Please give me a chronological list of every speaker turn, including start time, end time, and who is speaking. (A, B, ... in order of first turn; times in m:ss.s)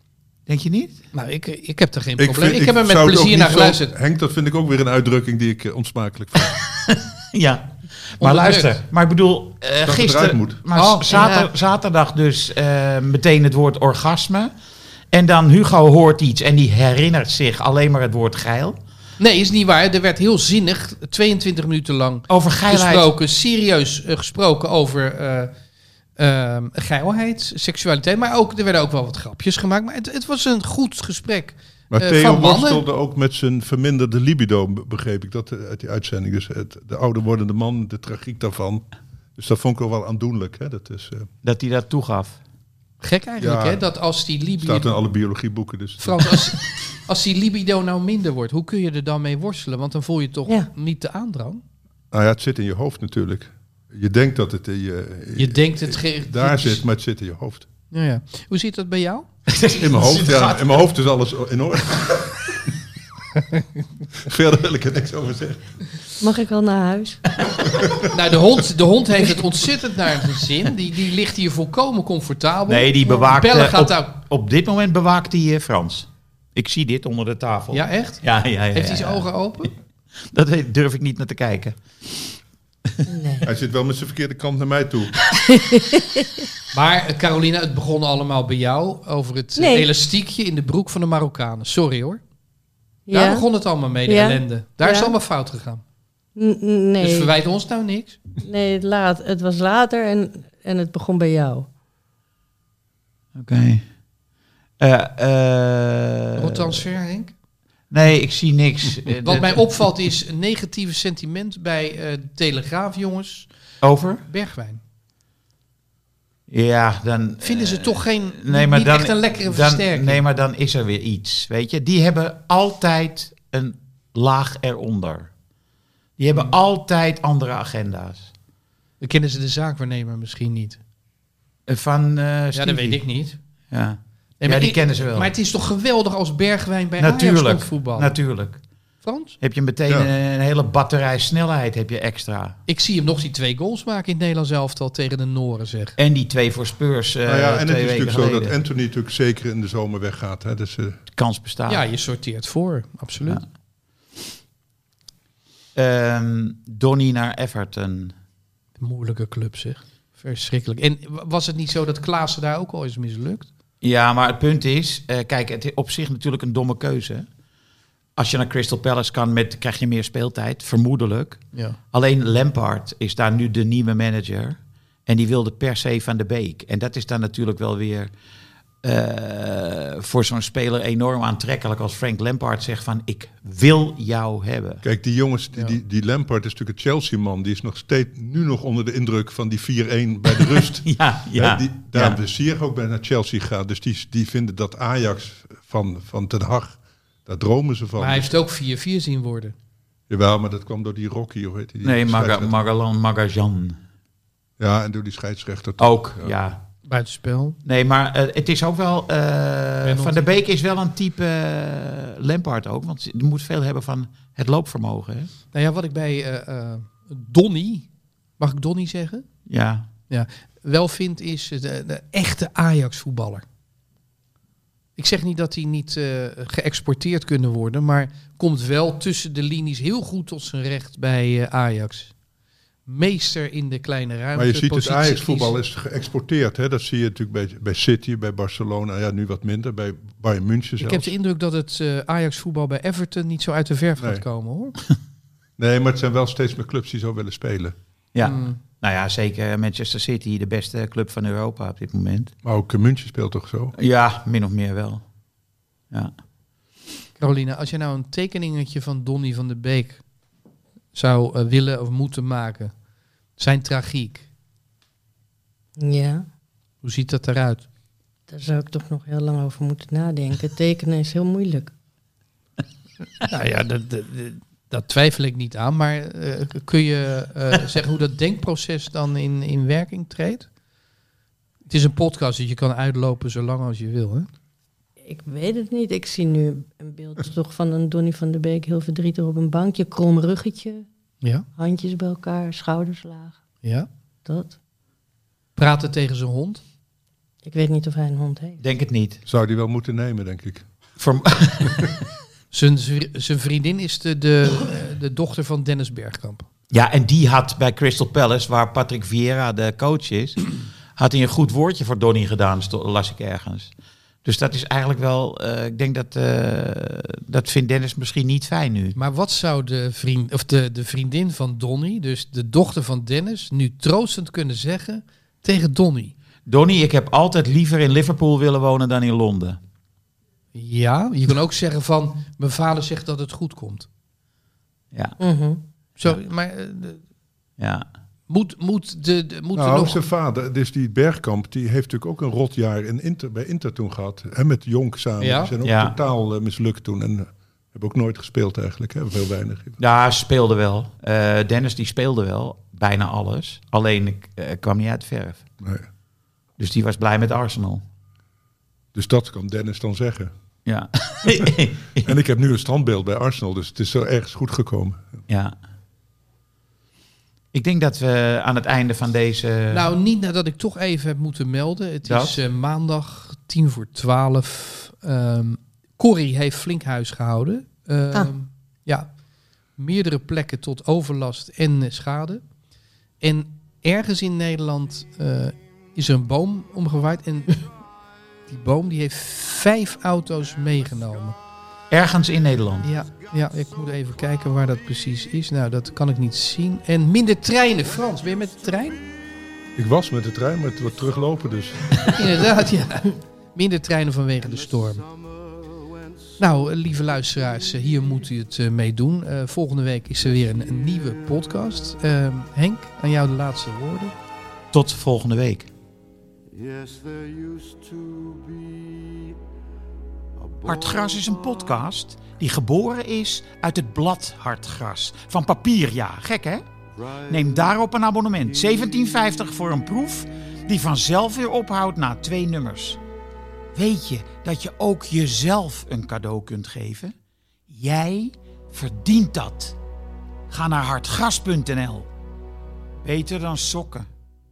0:00.5-0:01.0 A
0:01.1-0:03.9 B
0:02.2-0:06.6 C
0:06.9-0:14.5 A
0:08.2-0:08.7 B
0:09.8-0:10.6 C
0:10.8-0:11.5 B
0:15.1-0:18.8 A
0:19.2-0:25.5 B
0:22.3-0:23.1 A
0:26.2-0:32.8 B
0:31.9-0:41.3 C
0:41.4-0:42.4 A
0:43.0-0:44.9 B
0:43.4-0:43.9 C
0:44.6-0:46.4 C
0:46.0-0:51.6 B
0:52.1-0:57.7 C
0:55.4-0:56.8 B
0:57.9-0:59.3 B
0:59.5-1:00.8 A
0:59.8-1:02.5 C
1:04.1-1:05.6 C
1:06.2-1:07.2 D
1:07.6-1:08.1 C
1:08.1-1:14.1 B
1:12.7-1:19.3 A
1:17.7-1:19.7 B
1:20.3-1:22.2 A
1:23.1-1:23.5 D
1:23.4-1:25.2 C
1:25.5-1:26.5 D
1:26.7-1:32.2 B
1:29.6-1:29.9 D
1:33.1-1:33.5 D
1:33.1-1:35.8 B
1:34.1-1:35.2 D
1:36.4-1:37.3 D
1:37.0-1:38.2 B
1:38.4-1:41.7 D
1:43.4-1:43.8 A
1:44.8-1:46.7 A
1:46.4-1:47.3 B
1:47.9-1:49.7 A
1:49.2-1:53.5 B
1:53.8-1:54.2 A
1:54.3-1:54.8 B
1:56.5-2:05.3 A
1:57.4-2:00.2 B
2:06.2-2:08.3 A
2:09.0-2:10.8 B
2:11.7-2:13.0 A
2:12.5-2:13.4 B
2:13.7-2:15.3 A
2:14.4-2:18.1 B
2:17.0-2:18.6 A
2:19.0-2:19.4 B
2:19.4-2:22.6 A
2:22.7-2:26.0 B
2:26.0-2:28.6 A
2:27.3-2:31.0 C
2:31.1-2:31.8 A
2:31.7-2:33.4 B
2:35.8-2:38.1 A
2:38.8-2:43.5 B
2:43.8-2:47.3 A
2:48.2-2:58.1 A
2:58.8-3:04.8 A
3:04.8-3:18.3 C
3:10.4-3:12.2 A
3:18.0-3:19.6 B
3:20.1-3:22.5 C
3:21.8-3:23.8 A
3:24.6-3:26.4 C
3:25.8-3:26.6 A
3:26.8-3:27.6 B
3:27.6-3:35.3 A
3:29.8-3:30.3 B
3:35.5-3:37.9 B
3:38.4-3:39.2 B
3:39.5-3:39.9 A
3:40.1-3:43.4 B
3:45.0-3:52.1 B
3:52.9-3:55.6 B
3:54.4-4:01.1 C
4:00.8-4:04.8 B
4:04.0-4:04.2 C
4:05.6-4:07.8 C
4:08.1-4:12.3 A
4:08.2-4:08.6 B
4:12.4-4:13.7 C
4:13.8-4:15.0 A
4:17.2-4:20.0 B
4:20.9-4:22.7 B
4:23.4-4:24.2 B
4:25.8-4:26.2 D
4:26.8-4:27.7 B
4:28.3-4:31.7 D
4:33.3-4:40.5 B
4:41.7-4:44.3 B
4:45.1-4:50.9 D
4:51.6-4:53.4 D
4:53.6-4:53.9 B
4:54.3-4:54.6 D
4:55.6-4:56.6 B
4:57.4-4:58.6 D
4:58.6-4:59.2 A
4:59.3-5:00.7 C
5:01.0-5:02.0 A
5:02.5-5:06.4 B
5:06.7-5:13.7 A
5:14.2-5:19.0 A
5:19.0-5:26.1 B
5:26.5-5:29.6 A
5:30.6-5:33.9 B
5:34.9-5:35.2 A
5:35.2-5:35.6 D
5:36.0-5:37.0 B
5:37.6-5:37.9 A
5:38.3-5:40.0 B
5:39.6-5:49.8 C
5:45.2-5:45.5 B
5:45.6-5:46.0 A
5:49.8-5:55.4 A
5:55.6-5:55.9 C
5:56.6-5:57.8 A
5:58.9-6:00.3 C
6:00.7-6:02.1 A
6:02.0-6:05.2 C
6:05.3-6:05.6 A
6:07.5-6:09.9 A
6:09.7-6:19.1 B
6:12.0-6:12.4 A
6:19.8-6:22.4 B
6:23.2-6:27.6 B
6:28.5-6:31.4 B
6:31.9-6:32.9 A
6:32.8-6:39.0 B
6:39.8-6:41.9 C
6:42.2-6:45.0 B
6:44.4-6:46.4 E
6:46.4-6:54.1 B
6:54.7-6:55.7 A
6:56.5-6:59.3 E
7:00.4-7:01.2 E
7:00.6-7:06.6 A
7:07.0-7:07.7 E
7:07.3-7:13.0 A
7:08.7-7:09.4 E
7:13.8-7:17.1 A
7:17.7-7:19.8 A
7:20.5-7:22.1 A
7:23.0-7:24.1 A